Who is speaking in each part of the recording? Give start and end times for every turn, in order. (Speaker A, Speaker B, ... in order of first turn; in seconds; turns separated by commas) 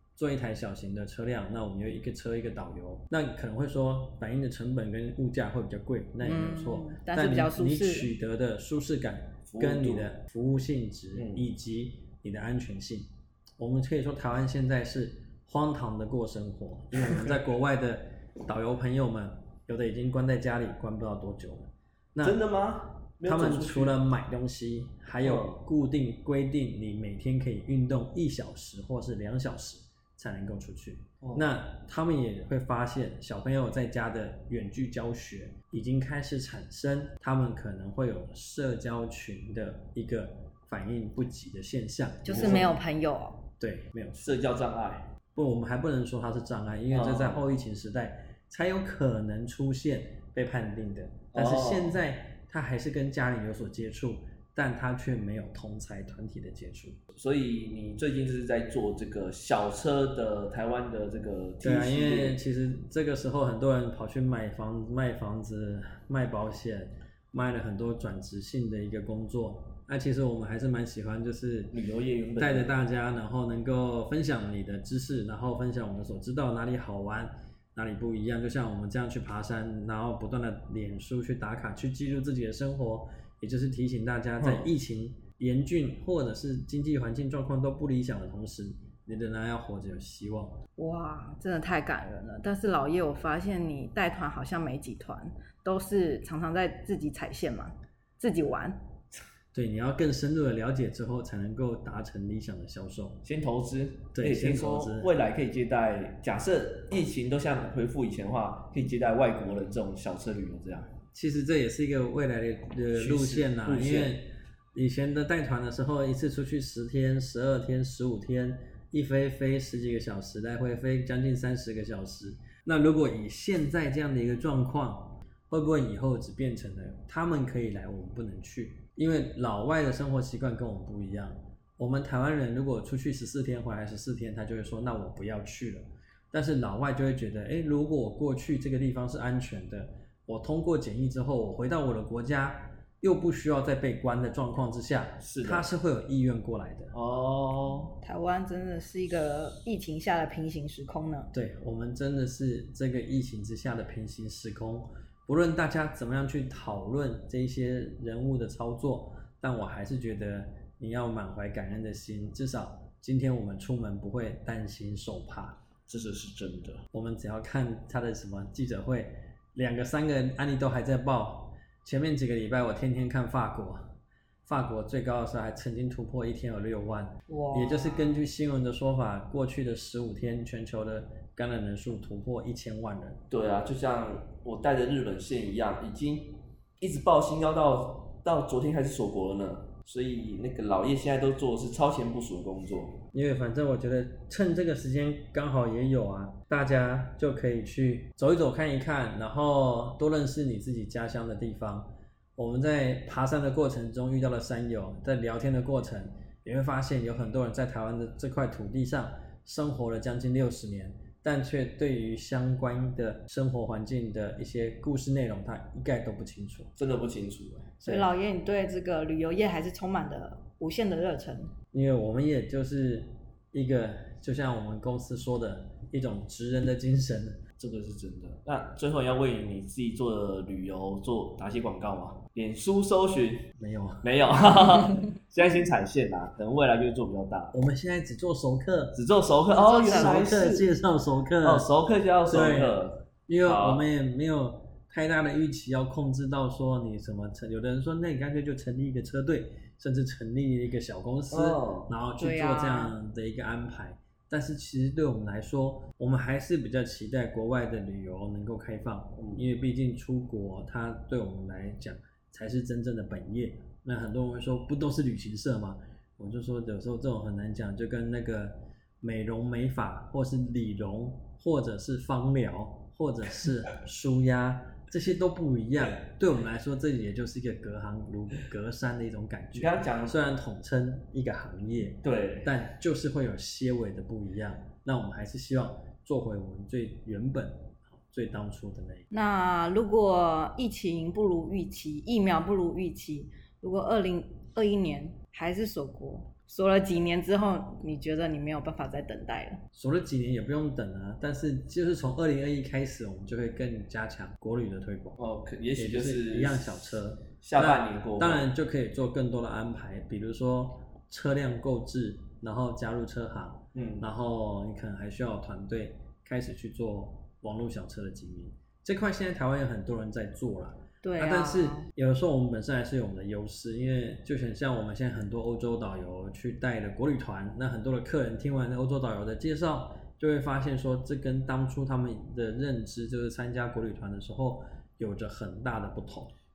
Speaker A: 0.2-22.4, Speaker B: 6.2-8.1, Speaker C: 9.5-10.1, Speaker C: 11.2-11.5, Speaker C: 16.9-17.4, Speaker C: 22.2-24.0, Speaker A: 23.2-42.7, Speaker C: 25.2-25.6, Speaker C: 31.2-31.5, Speaker B: 42.2-43.5, Speaker C: 42.3-42.7, Speaker A: 43.6-44.4, Speaker C: 44.2-45.1, Speaker A: 45.4-57.0, Speaker C: 46.9-47.4, Speaker C: 51.3-52.0, Speaker C: 57.1-62.4, Speaker A: 61.6-71.8, Speaker C: 71.7-72.8, Speaker A: 72.4-90.6, Speaker C: 84.4-84.7, Speaker B: 90.8-98.8, Speaker A: 99.5-103.2, Speaker C: 103.2-110.9, Speaker A: 104.2-105.1, Speaker A: 111.1-146.9, Speaker C: 112.9-114.1, Speaker C: 145.2-145.7, Speaker C: 146.9-148.0, Speaker B: 148.0-151.3, Speaker A: 151.3-165.6, Speaker C: 165.9-166.8, Speaker A: 166.9-173.9, Speaker A: 174.5-183.2, Speaker B: 177.3-178.0, Speaker C: 183.3-193.0, Speaker A: 193.1-216.7, Speaker C: 216.8-217.7, Speaker B: 217.8-221.5, Speaker A: 217.8-218.1, Speaker A: 221.7-227.4, Speaker C: 227.6-233.5, Speaker A: 233.6-234.1, Speaker C: 234.0-237.6, Speaker A: 237.5-239.0, Speaker C: 238.9-240.7, Speaker B: 239.6-240.2, Speaker A: 239.8-241.7, Speaker C: 241.4-243.9, Speaker A: 242.3-289.1, Speaker C: 251.3-251.9, Speaker B: 252.2-252.9, Speaker C: 259.2-259.5, Speaker C: 279.6-280.2, Speaker C: 282.0-282.5, Speaker B: 289.1-299.6, Speaker A: 299.7-305.2, Speaker C: 305.2-308.5, Speaker A: 305.8-336.3, Speaker C: 313.8-314.1, Speaker B: 321.0-321.9